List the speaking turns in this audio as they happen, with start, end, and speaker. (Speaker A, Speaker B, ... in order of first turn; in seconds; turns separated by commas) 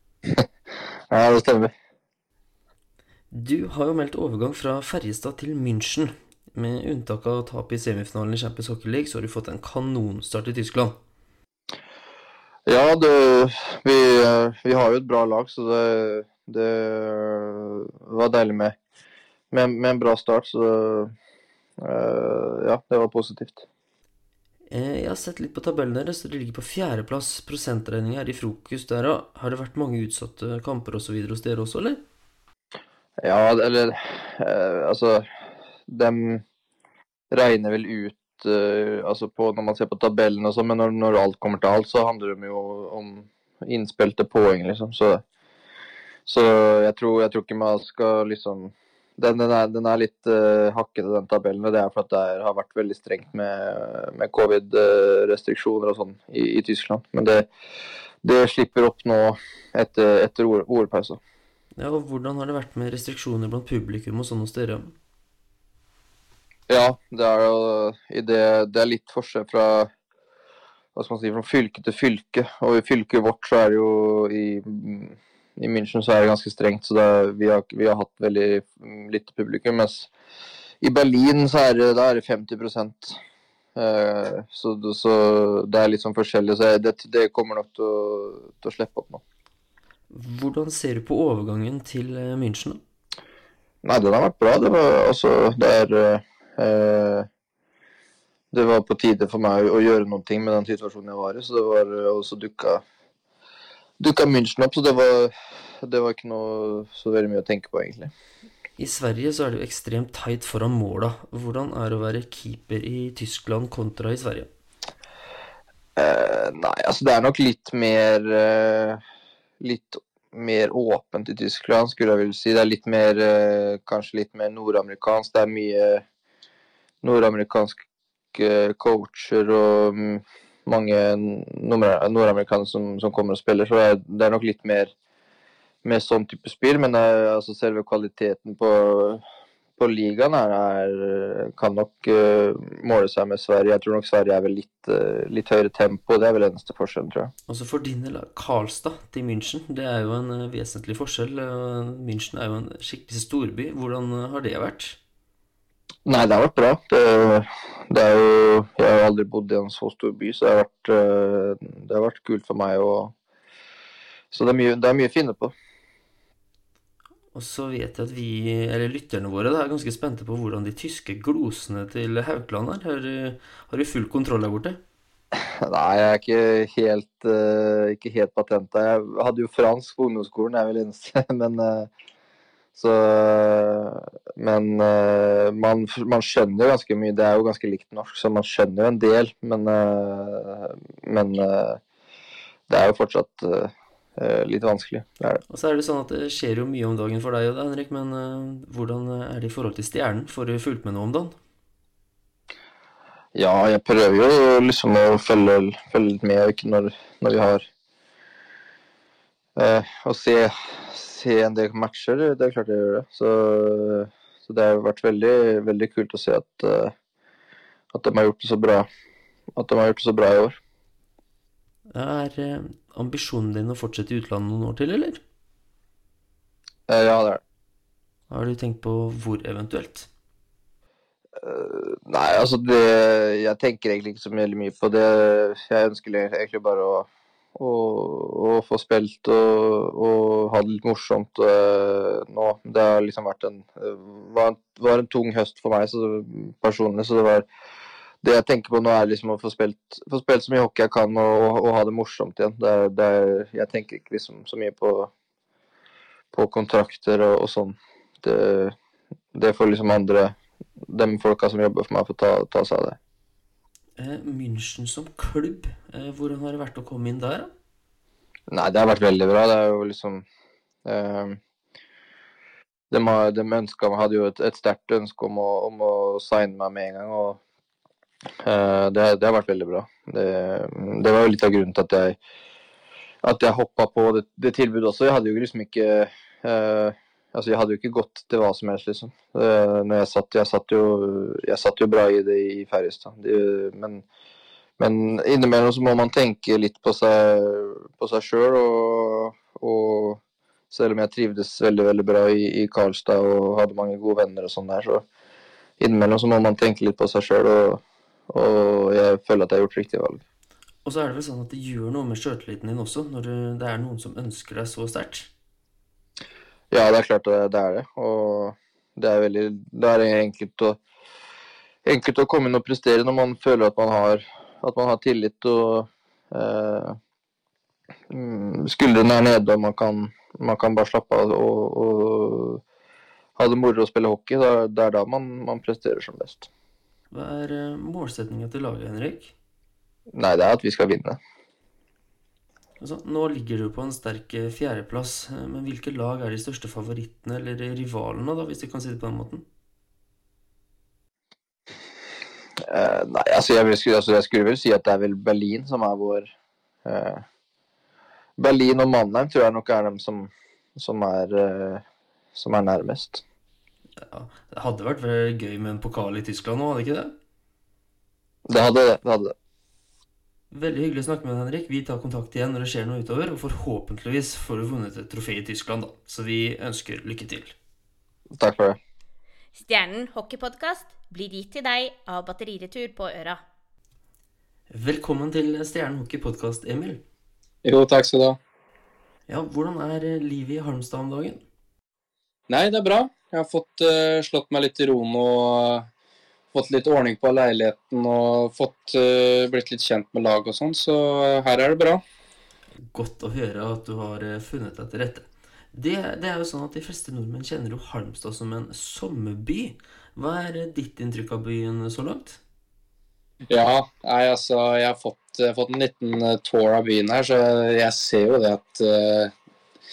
Speaker A: 1.1-1.7, Speaker B: 3.3-11.0, Speaker A: 12.7-18.8, Speaker A: 19.5-21.1, Speaker A: 21.8-23.6, Speaker B: 24.7-32.0, Speaker A: 33.2-35.3, Speaker A: 35.9-36.4, Speaker A: 37.3-45.2, Speaker A: 46.2-57.5, Speaker A: 58.2-61.2, Speaker B: 61.8-64.9, Speaker A: 66.7-69.9, Speaker A: 70.9-80.1, Speaker A: 80.8-83.2, Speaker A: 83.8-89.2, Speaker B: 90.1-92.8, Speaker A: 93.8-97.3, Speaker A: 98.5-102.8, Speaker A: 104.0-108.1, Speaker B: 108.8-114.5, Speaker A: 116.0-119.0, Speaker A: 119.6-126.0, Speaker A: 127.0-127.8, Speaker A: 128.3-134.9, Speaker A: 135.8-139.2, Speaker A: 139.8-147.3, Speaker B: 147.5-155.0, Speaker A: 156.1-163.1, Speaker A: 164.3-165.5, Speaker B: 167.3-174.8, Speaker A: 175.6-181.9, Speaker A: 182.7-191.8, Speaker A: 192.7-195.4, Speaker B: 195.5-201.3, Speaker A: 203.3-207.6, Speaker A: 209.6-216.9, Speaker A: 217.9-218.9, Speaker A: 219.6-220.6, Speaker B: 221.9-225.2, Speaker A: 226.9-227.4, Speaker B: 228.3-230.1, Speaker A: 231.4-247.4, Speaker A: 248.2-255.1, Speaker A: 256.3-258.7, Speaker A: 259.3-260.3, Speaker A: 260.9-263.0, Speaker B: 264.0-267.5, Speaker A: 268.5-270.2, Speaker A: 270.9-271.4, Speaker A: 272.9-277.4, Speaker A: 278.4-282.2, Speaker A: 283.2-294.1, Speaker A: 294.8-300.2, Speaker A: 300.7-305.0, Speaker A: 305.8-310.2, Speaker B: 310.8-315.3, Speaker A: 316.7-320.8, Speaker A: 321.8-327.0, Speaker A: 328.1-332.6, Speaker A: 333.4-336.5, Speaker B: 337.1-339.3, Speaker A: 340.1-341.2, Speaker B: 342.8-349.4, Speaker A: 352.7-356.3, Speaker A: 356.9-357.2, Speaker A: 358.4-361.8, Speaker A: 362.3-363.2, Speaker B: 364.0-367.1, Speaker A: 368.5-369.3, Speaker B: 370.5-377.5, Speaker A: 378.4-378.8, Speaker C: 379.5-383.4, Speaker B: 384.7-387.0, Speaker D: 387.6-388.4, Speaker B: 389.3-391.4, Speaker D: 392.5-395.9, Speaker D: 396.5-402.0, Speaker B: 402.9-412.4, Speaker D: 413.5-419.3